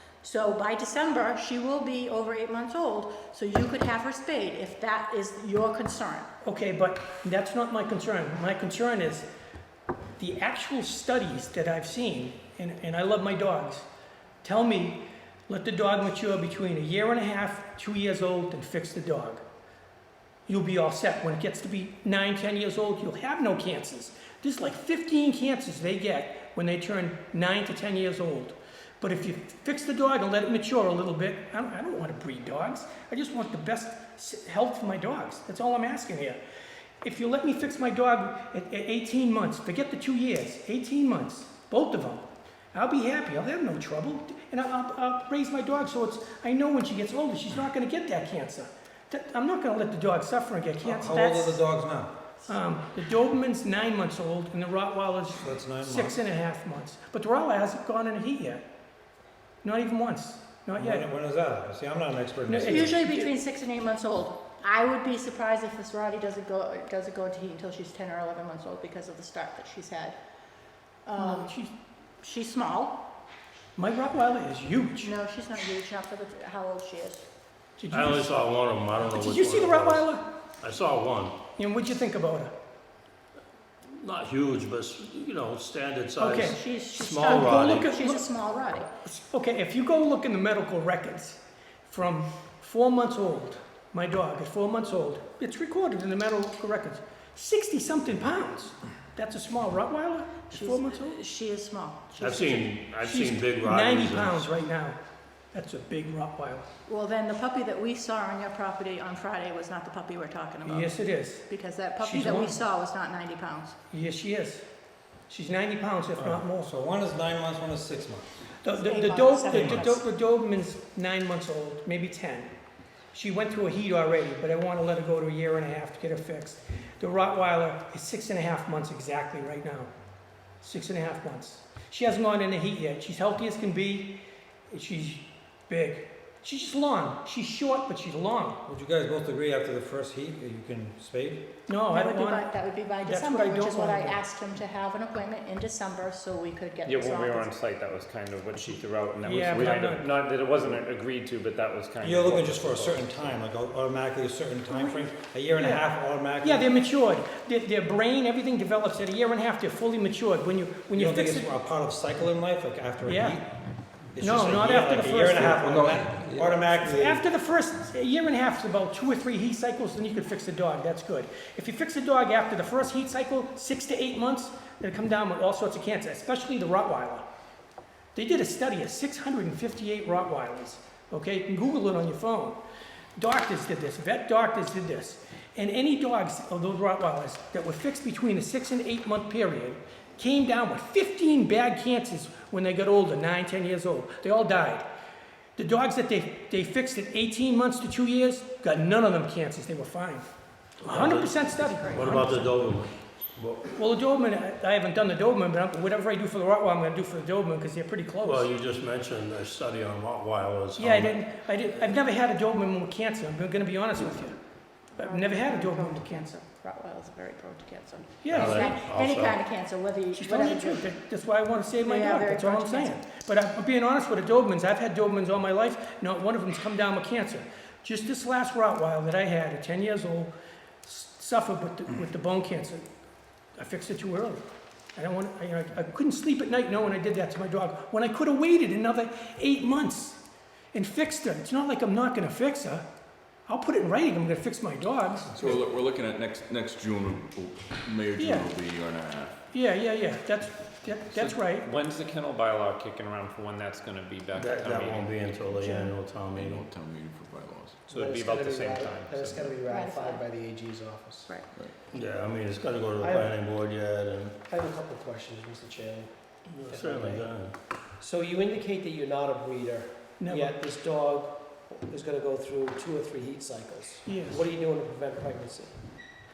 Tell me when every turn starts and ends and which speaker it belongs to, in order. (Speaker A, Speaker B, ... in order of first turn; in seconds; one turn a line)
Speaker A: 0.2-6.3
Speaker B: 6.4-9.3
Speaker B: 10.2-13.9
Speaker B: 14.4-19.4
Speaker B: 20.5-36.4
Speaker B: 37.0-51.6
Speaker C: 50.8-52.1
Speaker B: 52.5-58.6
Speaker C: 55.4-56.2
Speaker B: 59.6-61.1
Speaker C: 60.8-63.1
Speaker B: 62.5-63.3
Speaker A: 62.7-70.2
Speaker A: 71.0-71.6
Speaker B: 71.2-71.7
Speaker A: 72.2-73.0
Speaker B: 73.8-75.1
Speaker A: 75.0-77.3
Speaker B: 77.8-78.4
Speaker D: 77.9-80.1
Speaker B: 79.0-80.3
Speaker D: 80.6-81.4
Speaker B: 81.6-82.5
Speaker D: 83.9-88.0
Speaker B: 86.2-86.6
Speaker A: 86.5-88.9
Speaker B: 87.2-88.3
Speaker B: 89.1-101.2
Speaker A: 100.5-102.2
Speaker D: 102.2-104.5
Speaker B: 102.2-105.0
Speaker B: 105.5-106.7
Speaker A: 106.9-113.8
Speaker B: 110.6-111.5
Speaker B: 112.0-112.6
Speaker B: 113.9-114.6
Speaker B: 115.3-116.7
Speaker C: 116.2-118.3
Speaker B: 118.6-122.5
Speaker A: 118.8-120.0
Speaker D: 119.5-119.8
Speaker B: 123.1-129.9
Speaker B: 130.6-138.6
Speaker C: 138.6-141.5
Speaker B: 141.7-142.5
Speaker A: 141.9-147.5
Speaker B: 143.0-144.2
Speaker E: 146.8-153.3
Speaker B: 149.2-150.1
Speaker C: 152.0-156.7
Speaker B: 155.6-155.8
Speaker B: 156.4-161.5
Speaker C: 160.9-163.5
Speaker B: 163.0-163.4
Speaker C: 164.1-167.2
Speaker B: 164.2-165.9
Speaker F: 165.6-166.6
Speaker B: 166.7-177.2
Speaker B: 178.1-182.6
Speaker B: 183.2-194.8
Speaker B: 195.6-200.3
Speaker B: 200.8-202.7
Speaker D: 200.8-203.7
Speaker B: 203.8-208.5
Speaker D: 208.2-211.1
Speaker B: 210.8-214.4
Speaker B: 215.0-216.3
Speaker A: 215.0-220.9
Speaker B: 218.2-218.8
Speaker D: 218.3-219.4
Speaker B: 220.1-230.3
Speaker A: 221.8-223.0
Speaker B: 230.8-232.8
Speaker B: 233.6-234.4
Speaker B: 234.9-240.2
Speaker B: 240.7-242.8
Speaker B: 243.5-245.6
Speaker F: 245.3-249.3
Speaker B: 248.2-248.5
Speaker B: 249.5-251.7
Speaker E: 251.6-255.4
Speaker D: 254.3-256.7
Speaker F: 256.3-257.8
Speaker G: 257.9-261.3
Speaker E: 257.9-259.6
Speaker A: 259.7-260.2
Speaker D: 261.9-264.4
Speaker G: 263.0-263.4
Speaker G: 264.5-266.1
Speaker D: 266.5-267.5
Speaker G: 266.7-267.2
Speaker G: 268.0-275.8
Speaker B: 270.2-270.5
Speaker B: 274.1-274.5